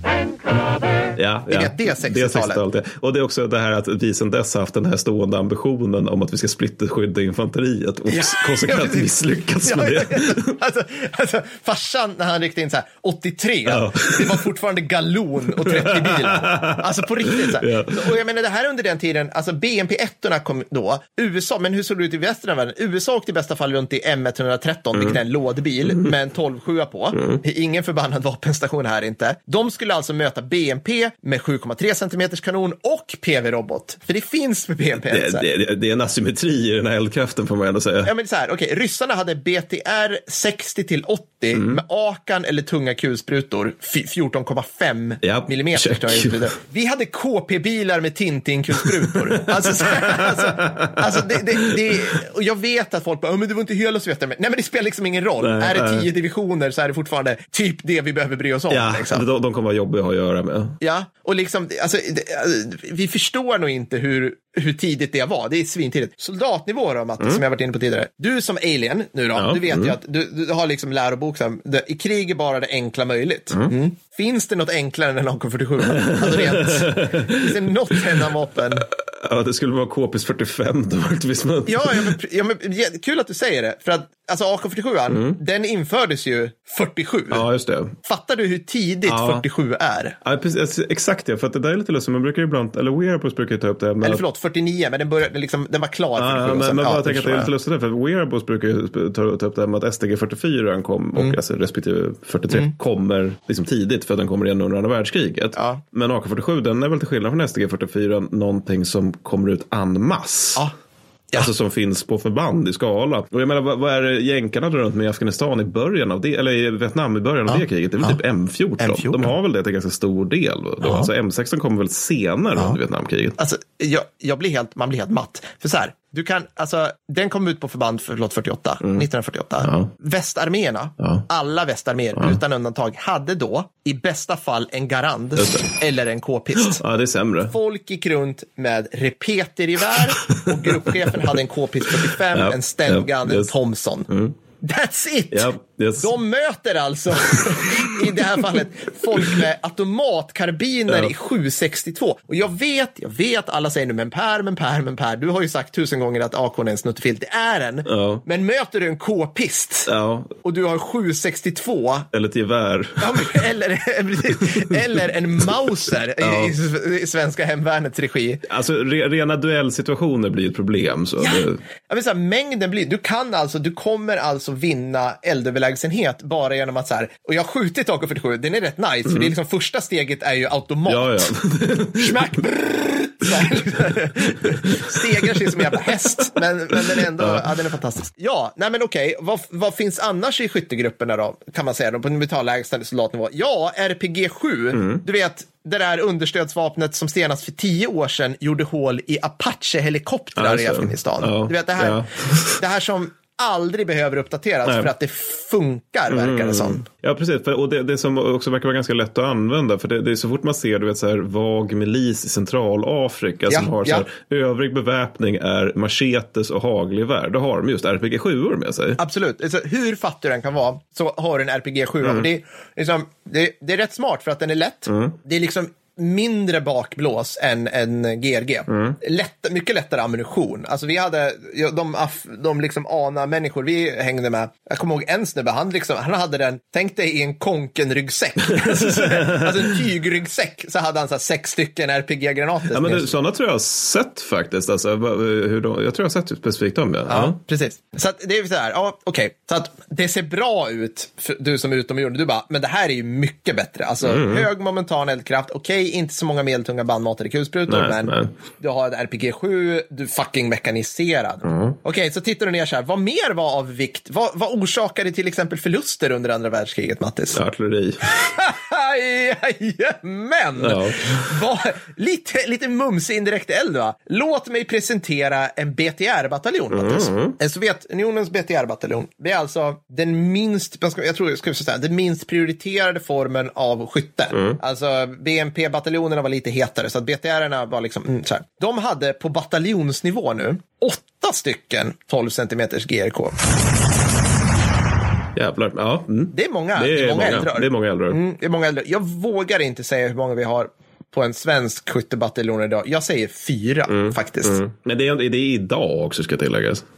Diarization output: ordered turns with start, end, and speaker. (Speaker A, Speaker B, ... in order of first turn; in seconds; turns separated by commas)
Speaker A: 1.1-10.4, Speaker B: 1.5-2.6, Speaker B: 8.1-35.5, Speaker A: 13.7-14.4, Speaker A: 15.5-18.1, Speaker A: 24.9-25.2, Speaker A: 25.9-26.1, Speaker A: 27.1-27.4, Speaker A: 35.0-38.1, Speaker B: 38.0-59.2, Speaker A: 41.5-41.8, Speaker A: 45.2-46.4, Speaker A: 49.3-51.7, Speaker A: 55.4-56.1, Speaker A: 58.7-60.8, Speaker B: 60.8-78.8, Speaker A: 69.3-69.9, Speaker A: 75.9-82.2, Speaker B: 81.7-87.4, Speaker A: 85.1-85.4, Speaker A: 87.3-87.9, Speaker B: 88.0-90.2, Speaker A: 89.0-89.4, Speaker A: 90.2-94.2, Speaker B: 94.0-97.5, Speaker A: 96.2-110.6, Speaker B: 105.5-105.8, Speaker A: 111.3-123.4, Speaker B: 117.5-118.2, Speaker B: 118.8-119.3, Speaker B: 120.8-121.1, Speaker B: 123.4-136.8, Speaker A: 129.6-129.9, Speaker A: 135.4-135.7, Speaker A: 136.6-137.5, Speaker B: 137.5-144.1, Speaker A: 140.3-141.3, Speaker A: 141.9-143.5, Speaker A: 144.1-144.3, Speaker B: 144.6-145.5, Speaker A: 145.3-146.1, Speaker B: 146.0-159.9, Speaker A: 149.1-149.4, Speaker A: 150.9-151.1, Speaker A: 157.8-158.2, Speaker A: 159.8-160.3, Speaker B: 160.4-162.1, Speaker A: 162.1-163.3, Speaker B: 163.0-168.4, Speaker A: 166.2-166.5, Speaker A: 168.5-171.6, Speaker B: 171.2-181.3, Speaker A: 180.9-182.4, Speaker B: 181.9-202.0, Speaker A: 184.3-186.0, Speaker A: 186.7-187.5, Speaker A: 194.7-195.0, Speaker A: 200.3-202.6, Speaker B: 202.6-206.8, Speaker A: 204.6-204.9, Speaker A: 206.1-219.0, Speaker B: 213.5-214.1, Speaker B: 219.0-243.1, Speaker A: 222.0-222.3, Speaker A: 224.9-225.1, Speaker A: 228.7-229.0, Speaker A: 238.6-239.7, Speaker A: 242.7-247.4, Speaker B: 247.1-267.4, Speaker A: 254.0-254.5, Speaker A: 257.7-258.3, Speaker A: 261.4-261.8, Speaker A: 267.3-268.1, Speaker B: 268.1-293.3, Speaker A: 270.6-271.3, Speaker A: 276.7-277.4, Speaker A: 284.3-284.6, Speaker A: 295.3-298.2, Speaker B: 296.3-304.6, Speaker A: 303.9-306.8